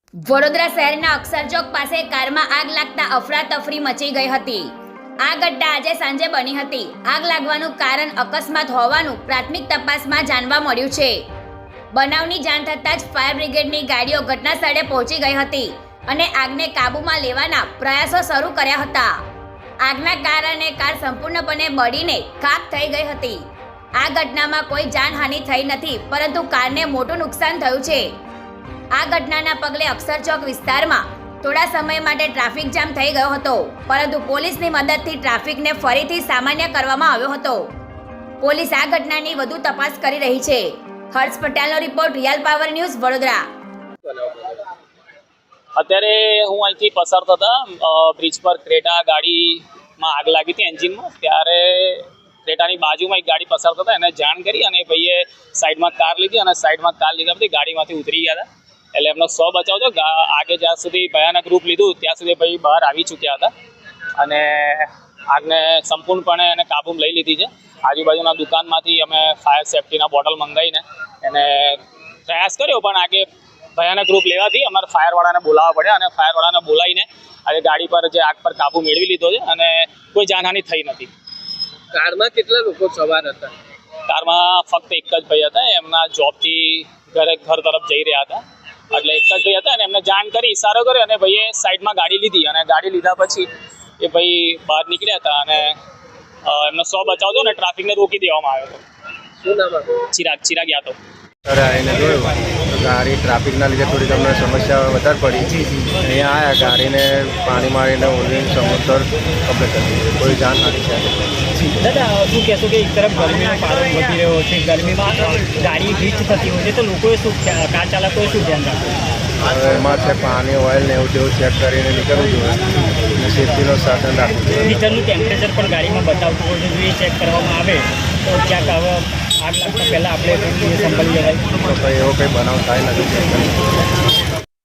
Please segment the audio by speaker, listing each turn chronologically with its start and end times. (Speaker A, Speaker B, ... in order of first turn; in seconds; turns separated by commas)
Speaker A: 0.2-4.7, Speaker A: 5.2-11.2, Speaker A: 11.9-19.1, Speaker A: 19.9-23.4, Speaker A: 24.0-28.1, Speaker A: 28.9-37.6, Speaker A: 38.4-43.4, Speaker B: 44.1-44.6, Speaker C: 45.8-63.5, Speaker C: 64.2-81.1, Speaker B: 81.9-83.5, Speaker C: 84.1-88.4, Speaker C: 88.9-93.5, Speaker C: 94.0-95.8, Speaker C: 96.4-98.8, Speaker B: 99.4-99.9, Speaker C: 100.0-101.0, Speaker D: 101.4-111.3, Speaker E: 105.5-105.9, Speaker E: 111.5-119.0, Speaker D: 119.4-124.8, Speaker E: 124.6-131.4, Speaker D: 131.6-133.6